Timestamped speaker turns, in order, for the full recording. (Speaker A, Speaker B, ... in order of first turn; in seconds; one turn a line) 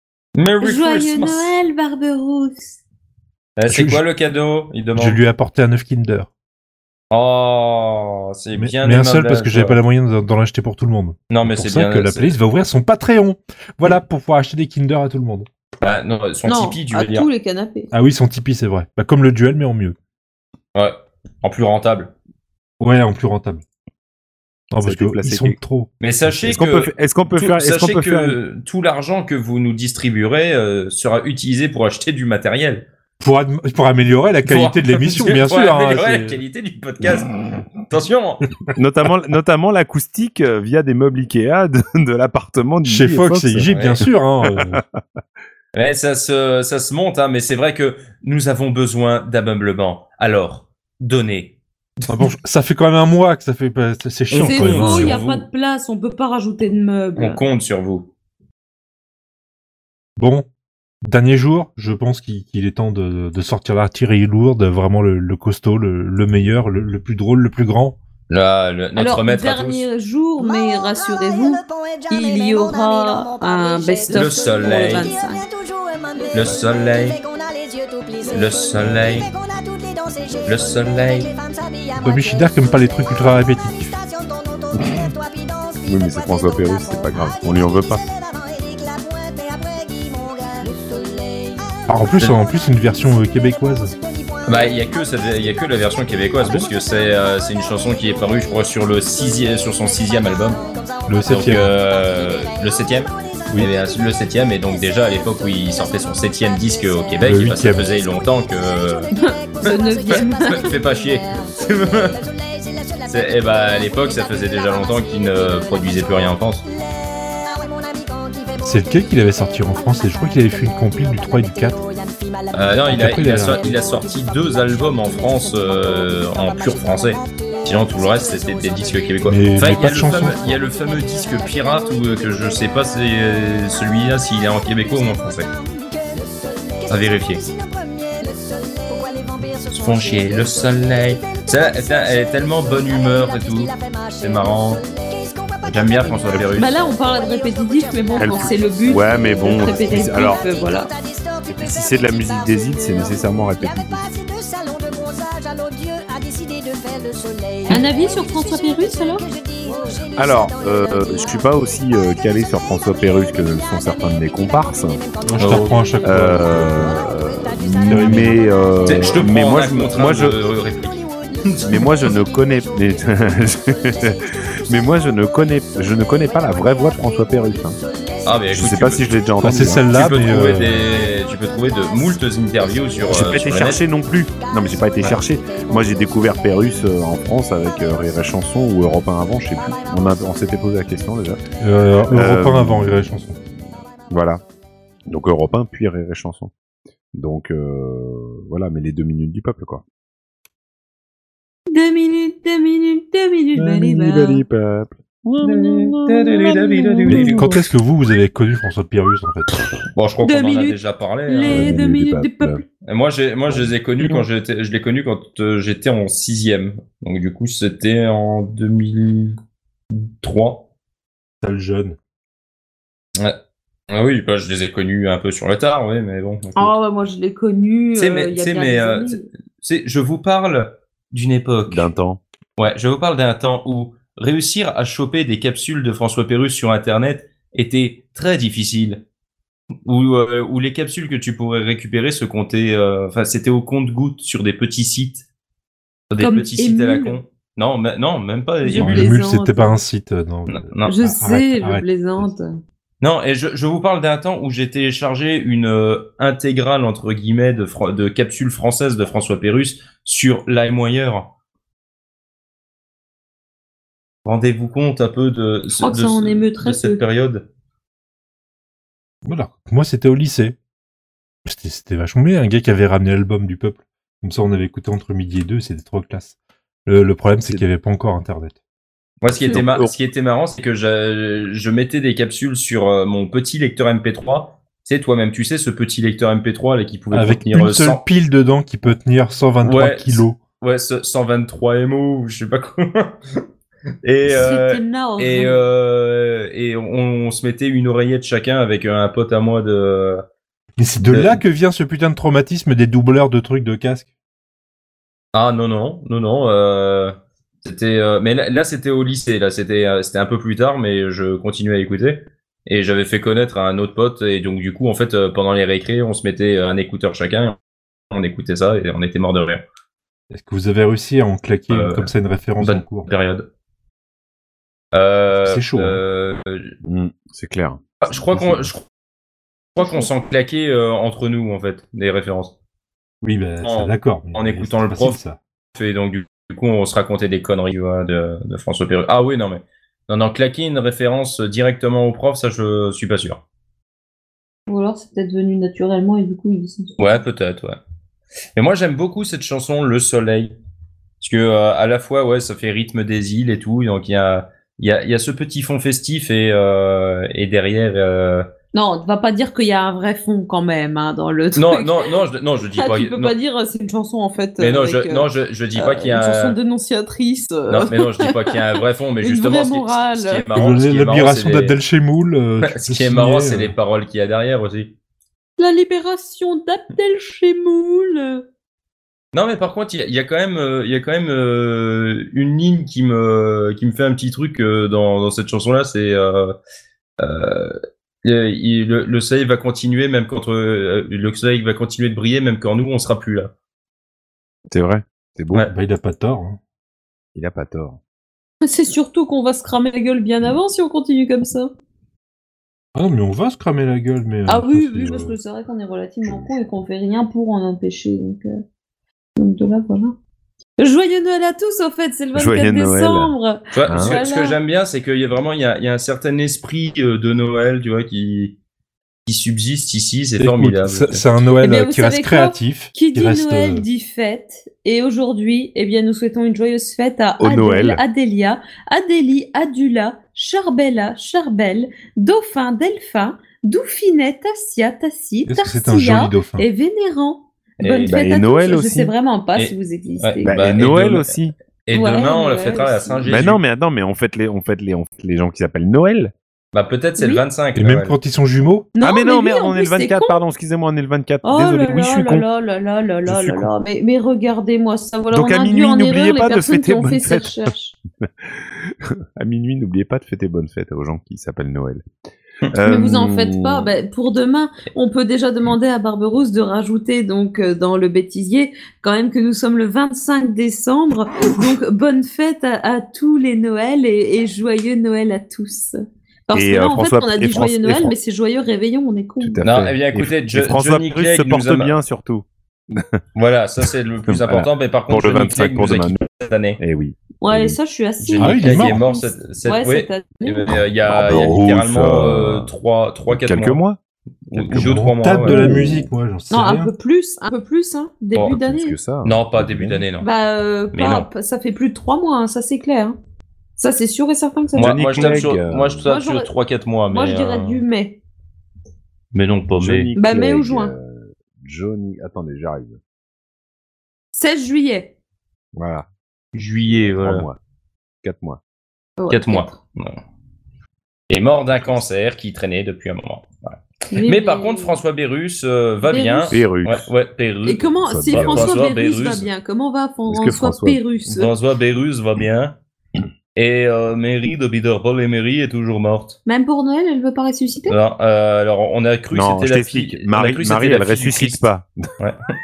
Speaker A: 0.3-1.5
Speaker B: 0.6-2.8
Speaker A: 3.6-5.2
Speaker C: 3.7-4.0
Speaker C: 4.9-6.3
Speaker A: 7.1-9.8
Speaker C: 8.5-15.5
Speaker A: 11.3-12.3
Speaker A: 15.8-17.3
Speaker B: 16.4-17.9
Speaker C: 17.9-19.9
Speaker A: 20.7-22.1
Speaker C: 22.8-23.6
Speaker C: 24.7-26.6
Speaker D: 24.8-25.6
Speaker A: 26.0-32.9
Speaker D: 26.5-28.4
Speaker C: 33.2-36.4
Speaker A: 34.4-38.4
Speaker D: 38.8-44.6
Speaker C: 42.8-44.8
Speaker A: 43.7-44.0
Speaker A: 45.7-52.3
Speaker C: 52.1-55.2
Speaker A: 54.3-55.5
Speaker B: 54.4-57.4
Speaker A: 57.2-58.1
Speaker C: 60.2-60.5
Speaker C: 61.0-68.0
Speaker A: 68.3-69.8
Speaker B: 69.0-75.5
Speaker E: 71.2-76.3
Speaker A: 74.1-75.1
Speaker A: 76.3-77.2
Speaker E: 77.2-78.3
Speaker A: 78.3-79.3
Speaker E: 79.5-80.4
Speaker A: 80.5-81.3
Speaker C: 82.0-83.9
Speaker E: 85.6-85.8
Speaker D: 85.9-88.0
Speaker E: 88.8-91.5
Speaker C: 91.9-93.9
Speaker A: 94.4-100.7
Speaker C: 101.1-101.7
Speaker A: 101.3-109.1
Speaker C: 107.2-107.9
Speaker B: 109.1-110.7
Speaker A: 109.6-112.2
Speaker A: 113.1-116.7
Speaker E: 117.8-118.6
Speaker C: 118.6-121.8
Speaker A: 122.5-135.5
Speaker C: 122.9-123.8
Speaker E: 125.2-126.5
Speaker E: 127.1-127.6
Speaker C: 129.2-130.6
Speaker A: 136.9-137.4
Speaker E: 137.5-139.5
Speaker A: 139.7-144.8
Speaker E: 145.2-145.5
Speaker A: 145.7-146.7
Speaker D: 146.2-146.5
Speaker B: 146.5-150.9
Speaker E: 146.8-151.6
Speaker D: 148.2-150.4
Speaker D: 151.5-154.0
Speaker E: 154.0-158.8
Speaker B: 157.7-159.2
Speaker D: 160.2-165.0
Speaker A: 165.2-165.8
Speaker C: 165.4-167.0
Speaker D: 166.0-170.4
Speaker E: 167.4-167.8
Speaker C: 167.8-168.4
Speaker A: 168.8-172.1
Speaker D: 171.6-174.1
Speaker D: 174.7-177.8
Speaker A: 178.2-179.1
Speaker D: 178.5-179.9
Speaker C: 179.4-180.8
Speaker A: 179.9-183.8
Speaker D: 183.1-191.4
Speaker C: 191.6-193.4
Speaker D: 192.1-193.1
Speaker D: 194.1-194.4
Speaker D: 195.1-196.5
Speaker D: 197.1-199.8
Speaker B: 201.7-204.4
Speaker D: 203.5-207.6
Speaker A: 205.4-207.6
Speaker C: 207.1-209.6
Speaker A: 209.9-211.7
Speaker B: 210.2-212.6
Speaker D: 211.5-212.6
Speaker A: 212.8-219.3
Speaker D: 213.5-214.2
Speaker A: 219.9-220.7
Speaker C: 221.4-222.0
Speaker A: 223.9-226.7
Speaker B: 226.6-229.3
Speaker A: 227.9-231.9
Speaker D: 231.7-232.2
Speaker A: 232.6-239.0
Speaker A: 239.8-245.2
Speaker A: 246.1-249.1
Speaker B: 246.2-247.2
Speaker B: 248.6-249.8
Speaker C: 248.7-252.3
Speaker A: 250.5-250.9
Speaker B: 250.8-252.5
Speaker A: 253.0-261.3
Speaker A: 264.2-267.5
Speaker B: 265.8-267.0
Speaker C: 269.2-270.6
Speaker C: 271.4-278.6
Speaker A: 279.2-288.0
Speaker D: 279.5-279.9
Speaker C: 287.1-290.4
Speaker A: 289.6-293.4
Speaker A: 294.0-300.2
Speaker B: 294.2-295.7
Speaker C: 300.8-304.1
Speaker A: 301.0-301.4
Speaker A: 305.3-317.6
Speaker A: 318.1-319.6
Speaker C: 320.3-323.1
Speaker A: 321.7-323.5
Speaker A: 324.9-326.8
Speaker C: 325.3-326.0
Speaker D: 326.8-328.7
Speaker A: 328.0-328.9
Speaker A: 329.8-332.5
Speaker B: 329.8-330.1
Speaker C: 333.2-335.4
Speaker A: 333.6-335.2
Speaker A: 335.7-343.4
Speaker B: 344.7-346.9
Speaker A: 347.0-347.8
Speaker A: 348.6-350.6
Speaker A: 351.2-358.5
Speaker B: 358.7-362.1
Speaker A: 361.5-363.3
Speaker B: 362.7-368.5
Speaker A: 364.6-366.6
Speaker A: 367.7-371.8
Speaker B: 369.2-370.5
Speaker C: 370.5-373.7
Speaker A: 372.6-374.9
Speaker B: 375.6-378.4
Speaker A: 379.3-386.6
Speaker A: 387.2-393.5
Speaker D: 394.7-395.7
Speaker C: 395.7-396.6
Speaker D: 397.3-398.0
Speaker B: 398.6-401.7
Speaker C: 402.9-405.4
Speaker B: 404.5-408.5
Speaker D: 406.2-406.8
Speaker B: 409.4-410.1
Speaker B: 410.8-414.6
Speaker D: 412.3-413.3
Speaker A: 413.7-418.6
Speaker D: 413.9-414.2
Speaker A: 419.2-421.4
Speaker C: 420.4-423.9
Speaker B: 421.6-440.5
Speaker D: 427.4-428.0
Speaker C: 435.4-436.6
Speaker A: 437.8-438.2
Speaker D: 438.1-439.1
Speaker A: 439.5-443.6
Speaker D: 440.4-441.5
Speaker B: 441.9-443.3
Speaker D: 443.2-446.3
Speaker A: 446.7-448.2
Speaker B: 447.2-447.4
Speaker C: 447.8-448.9
Speaker B: 448.9-450.4
Speaker D: 449.0-452.4
Speaker B: 451.4-457.9
Speaker D: 453.2-453.7
Speaker D: 455.3-457.7
Speaker D: 458.2-462.0
Speaker D: 462.7-463.9
Speaker B: 462.8-475.9
Speaker B: 476.5-479.7
Speaker D: 476.5-478.1
Speaker D: 479.4-483.0
Speaker A: 479.6-482.0
Speaker A: 483.3-486.8
Speaker D: 484.3-486.2
Speaker D: 486.8-487.8
Speaker B: 487.4-490.7
Speaker A: 488.2-493.8
Speaker C: 488.4-489.0
Speaker D: 490.7-492.7
Speaker D: 493.3-494.0
Speaker D: 494.5-496.1
Speaker A: 494.5-495.7
Speaker C: 494.7-496.9
Speaker B: 495.5-495.9
Speaker B: 496.5-498.9
Speaker D: 498.5-500.0
Speaker A: 499.2-500.3
Speaker B: 500.2-503.1
Speaker A: 500.9-501.3
Speaker B: 503.8-505.5
Speaker A: 504.8-507.8
Speaker D: 504.8-506.1
Speaker B: 506.0-506.5
Speaker B: 507.1-508.2
Speaker A: 509.3-510.1
Speaker D: 509.7-513.0
Speaker B: 510.1-510.9
Speaker B: 514.3-515.1
Speaker D: 515.7-516.0
Speaker A: 516.5-517.5
Speaker D: 516.9-517.6
Speaker D: 518.2-518.6
Speaker B: 519.2-519.8
Speaker A: 519.3-520.2
Speaker A: 521.3-529.5
Speaker B: 524.1-525.0
Speaker B: 526.0-526.6
Speaker D: 526.5-527.1
Speaker B: 527.6-531.5
Speaker D: 528.0-528.8
Speaker D: 530.3-531.0
Speaker A: 531.2-532.8
Speaker A: 533.5-536.4
Speaker B: 536.5-538.0
Speaker A: 537.9-542.4
Speaker D: 539.3-541.9